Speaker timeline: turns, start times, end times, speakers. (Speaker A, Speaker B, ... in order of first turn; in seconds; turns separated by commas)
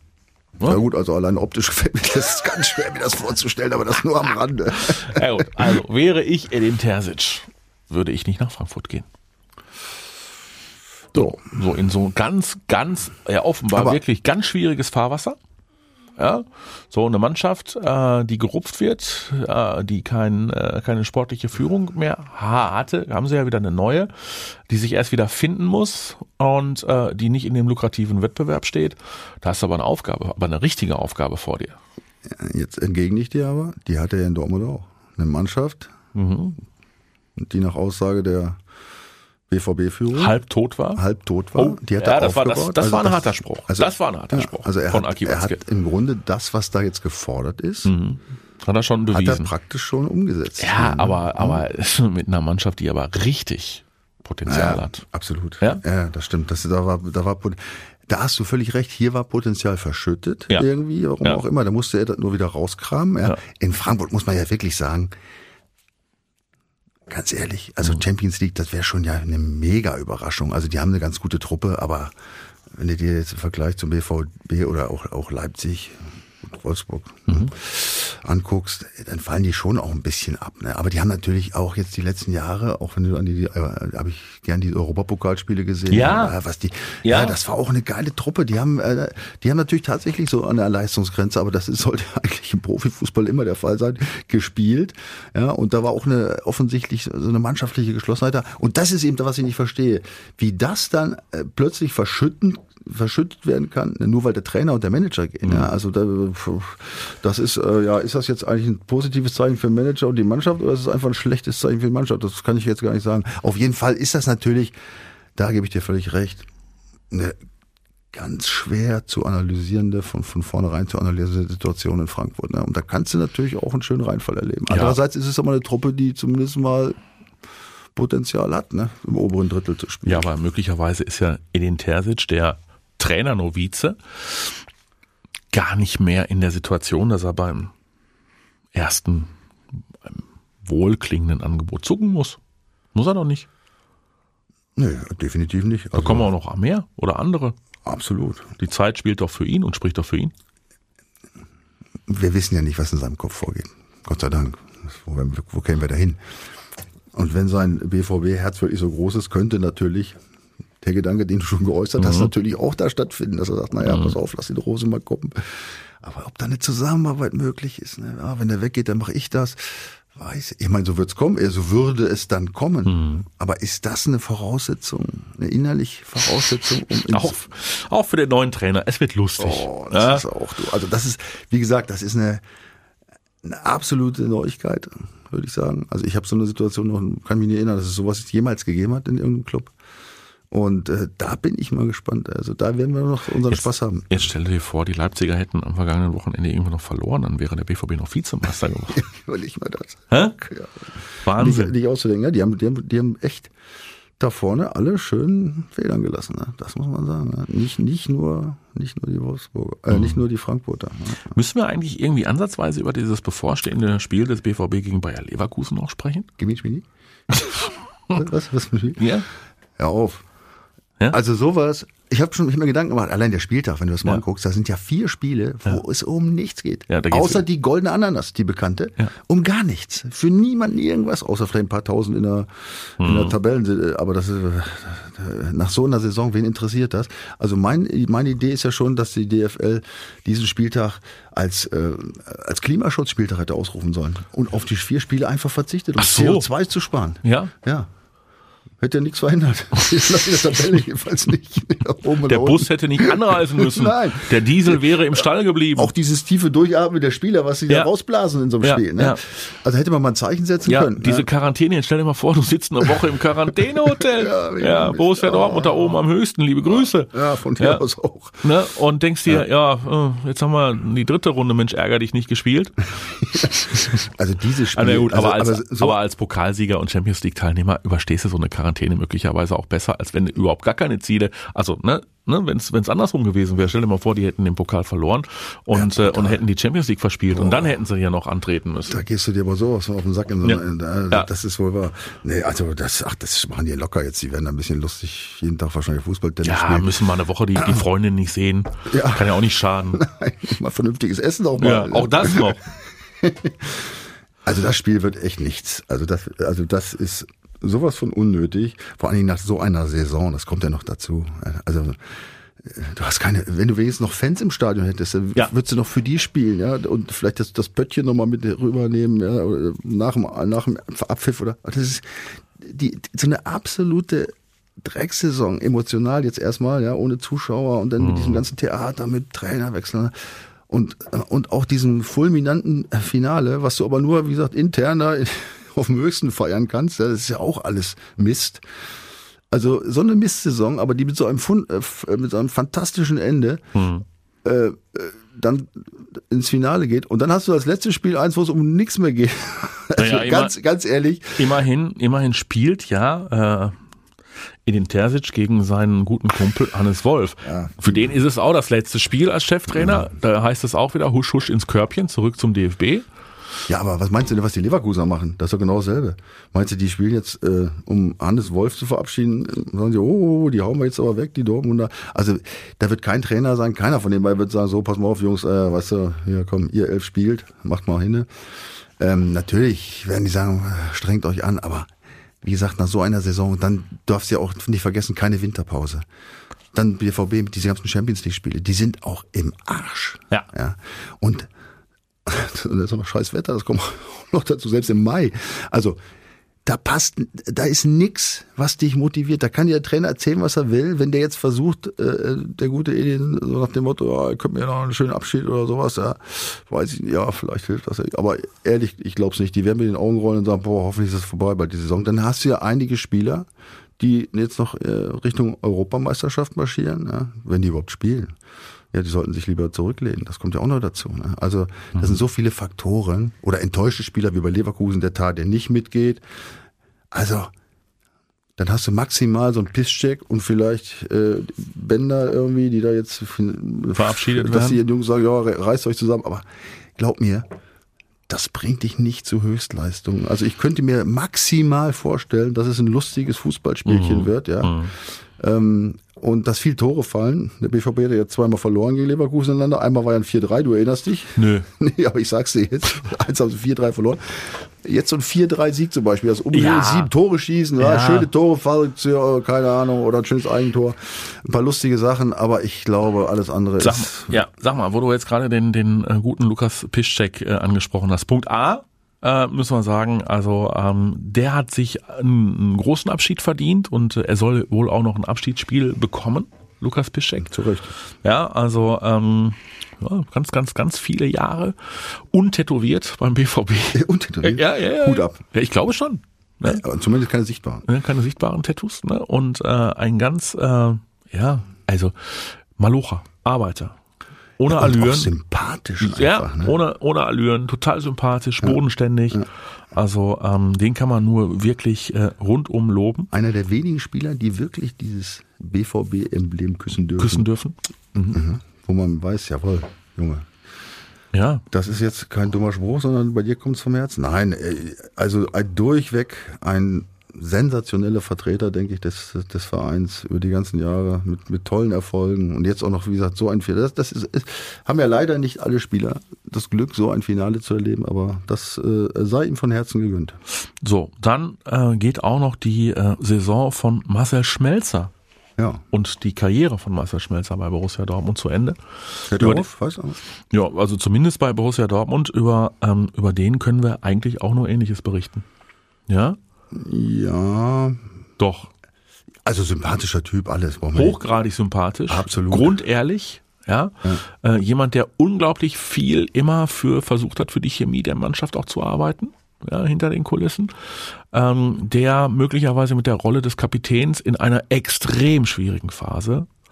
Speaker A: 0.6-5.8, Speaker B: 4.8-9.1, Speaker B: 11.1-15.4, Speaker A: 13.7-14.0, Speaker B: 16.2-31.8, Speaker A: 32.2-35.9, Speaker B: 36.1-36.6, Speaker A: 37.4-38.6, Speaker A: 39.5-40.4, Speaker B: 40.1-41.0, Speaker A: 40.9-47.9, Speaker B: 41.5-45.6, Speaker B: 47.8-49.5, Speaker A: 49.1-51.6, Speaker B: 50.6-55.0, Speaker A: 54.5-65.1, Speaker A: 67.1-72.1, Speaker A: 72.7-114.7, Speaker B: 85.9-86.3, Speaker B: 87.0-87.4, Speaker B: 105.4-105.7, Speaker A: 115.3-116.5, Speaker A: 117.1-117.4, Speaker A: 118.1-127.0, Speaker B: 124.7-125.0, Speaker A: 127.9-130.3, Speaker B: 130.1-134.5, Speaker B: 135.5-137.7, Speaker B: 138.7-139.3, Speaker B: 140.1-142.4, Speaker B: 142.9-143.5, Speaker A: 144.8-146.3, Speaker B: 145.9-147.6, Speaker A: 147.8-148.5, Speaker B: 148.6-150.3, Speaker A: 152.1-156.2, Speaker A: 157.1-160.2, Speaker A: 160.8-177.5, Speaker B: 162.0-162.3, Speaker B: 163.8-164.2, Speaker B: 172.8-173.2, Speaker B: 177.1-180.2, Speaker A: 179.4-182.4, Speaker A: 183.4-189.7, Speaker A: 190.5-194.2, Speaker B: 193.5-199.0, Speaker A: 198.9-203.5, Speaker B: 200.1-200.4, Speaker B: 201.2-201.7, Speaker A: 204.2-211.3, Speaker B: 209.9-210.2, Speaker B: 211.3-216.3, Speaker A: 216.4-216.8, Speaker B: 217.3-218.1, Speaker A: 218.1-219.1, Speaker B: 219.0-219.3, Speaker A: 219.8-220.2, Speaker A: 221.1-247.9, Speaker B: 226.9-227.4, Speaker B: 233.0-233.3, Speaker B: 246.0-246.5, Speaker B: 247.2-247.5, Speaker A: 248.8-255.2, Speaker B: 252.3-255.9, Speaker A: 255.8-261.3, Speaker B: 258.6-259.2, Speaker B: 260.6-267.8, Speaker A: 263.8-266.0, Speaker A: 266.8-268.4, Speaker B: 268.4-272.8, Speaker A: 273.1-276.0, Speaker B: 274.7-289.0, Speaker A: 285.7-286.4, Speaker A: 287.3-287.7, Speaker A: 288.9-297.0, Speaker B: 290.4-291.3, Speaker B: 296.4-300.0, Speaker A: 298.9-299.4, Speaker A: 299.9-338.6, Speaker B: 301.6-302.6, Speaker B: 328.0-328.4, Speaker A: 339.5-343.6, Speaker B: 343.7-344.0, Speaker A: 344.4-351.5, Speaker B: 349.9-350.5, Speaker B: 351.4-353.8, Speaker B: 354.6-363.1, Speaker A: 357.4-358.2, Speaker A: 359.7-360.0, Speaker A: 363.7-378.3, Speaker A: 379.0-381.9, Speaker A: 382.4-386.0, Speaker A: 386.7-391.5, Speaker A: 392.2-396.0, Speaker A: 396.6-413.5, Speaker A: 414.0-418.3, Speaker A: 418.9-426.2, Speaker B: 421.9-422.2, Speaker A: 427.1-427.5, Speaker A: 428.6-437.4, Speaker B: 433.9-434.8, Speaker A: 438.3-464.4, Speaker B: 443.9-444.9, Speaker B: 451.4-451.7, Speaker B: 456.5-457.1, Speaker B: 457.8-458.3, Speaker B: 463.8-477.5, Speaker A: 477.4-477.9, Speaker B: 478.2-486.8, Speaker A: 483.9-485.4, Speaker A: 486.6-487.8, Speaker B: 487.8-494.0, Speaker B: 494.6-495.3, Speaker A: 494.7-496.8, Speaker B: 496.0-503.3, Speaker A: 503.3-507.5, Speaker B: 507.2-508.4, Speaker A: 508.3-510.5, Speaker B: 511.3-511.6, Speaker A: 511.7-530.4, Speaker B: 530.8-535.1, Speaker A: 535.6-535.8, Speaker B: 535.9-539.6, Speaker A: 539.3-540.2, Speaker B: 540.5-545.4, Speaker B: 546.1-546.4, Speaker A: 546.7-548.0, Speaker B: 548.4-548.7, Speaker A: 549.4-551.2, Speaker B: 550.9-566.5, Speaker A: 552.1-552.8